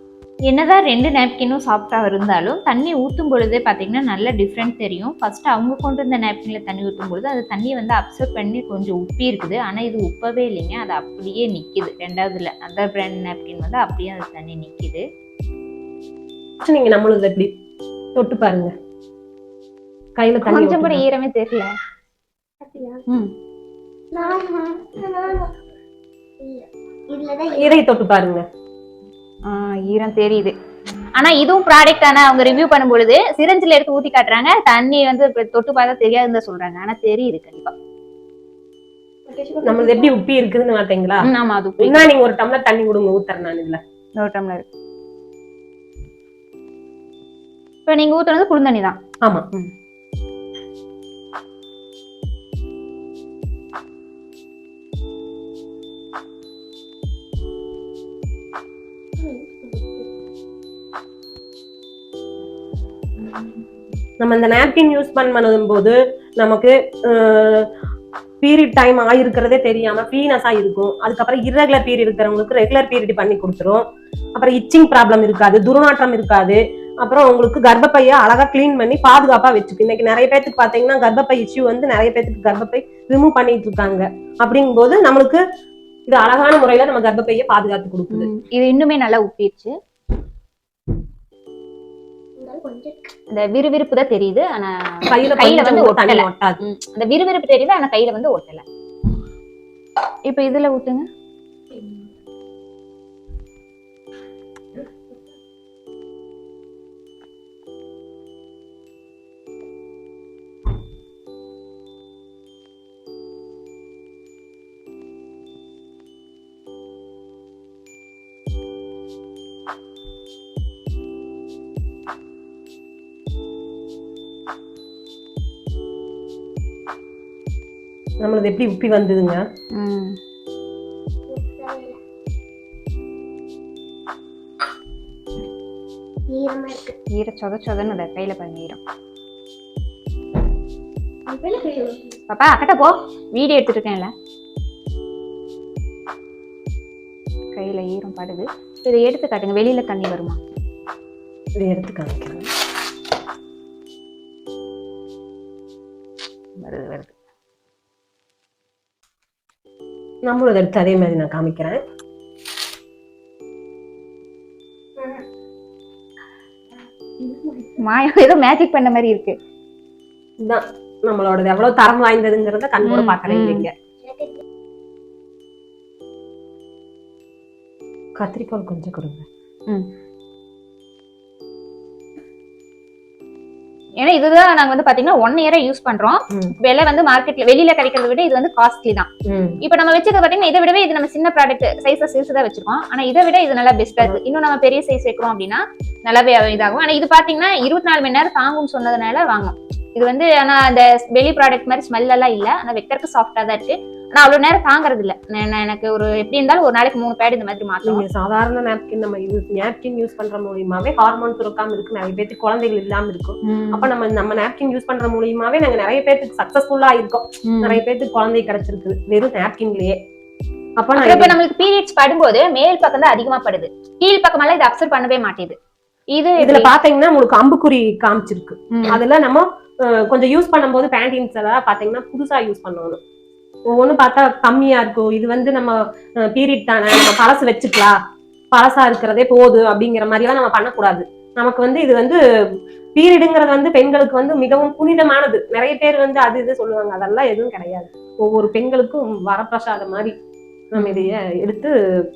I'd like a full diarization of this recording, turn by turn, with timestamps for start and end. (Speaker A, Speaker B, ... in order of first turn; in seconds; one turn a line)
Speaker A: 0.5-15.1
Speaker B: 16.6-17.5
Speaker B: 18.2-18.7
Speaker B: 20.2-21.0
Speaker A: 20.4-21.7
Speaker C: 22.6-23.1
Speaker C: 24.1-25.6
Speaker C: 26.4-27.8
Speaker B: 27.6-28.5
Speaker A: 29.5-30.6
Speaker A: 31.1-37.8
Speaker C: 39.3-40.2
Speaker B: 39.6-41.3
Speaker A: 41.2-42.1
Speaker B: 41.8-43.8
Speaker A: 44.2-44.7
Speaker A: 47.9-49.0
Speaker B: 49.2-49.5
Speaker C: 59.2-60.1
Speaker B: 64.2-67.7
Speaker B: 68.4-73.8
Speaker B: 74.4-85.4
Speaker B: 86.1-88.3
Speaker A: 88.1-89.8
Speaker C: 92.4-93.1
Speaker A: 93.3-98.6
Speaker B: 95.1-96.6
Speaker A: 100.3-101.1
Speaker C: 101.7-102.1
Speaker B: 128.2-129.4
Speaker A: 129.7-130.2
Speaker C: 131.3-132.0
Speaker C: 136.3-137.0
Speaker A: 137.1-138.8
Speaker C: 141.3-142.2
Speaker A: 142.3-144.1
Speaker A: 147.6-150.4
Speaker B: 151.6-152.5
Speaker A: 156.6-157.1
Speaker B: 160.3-161.8
Speaker C: 167.2-167.8
Speaker A: 167.8-169.4
Speaker B: 170.4-173.7
Speaker A: 172.8-173.7
Speaker C: 174.0-174.4
Speaker B: 178.2-179.3
Speaker A: 184.0-189.1
Speaker B: 189.3-189.6
Speaker A: 189.6-208.1
Speaker B: 207.8-220.0
Speaker A: 213.4-213.9
Speaker A: 217.4-217.8
Speaker B: 220.8-221.4
Speaker A: 221.0-225.6
Speaker A: 226.1-226.7
Speaker B: 226.4-233.0
Speaker A: 228.7-229.0
Speaker B: 233.7-237.9
Speaker B: 238.5-242.2
Speaker B: 243.0-250.1
Speaker B: 250.7-251.7
Speaker A: 250.8-251.1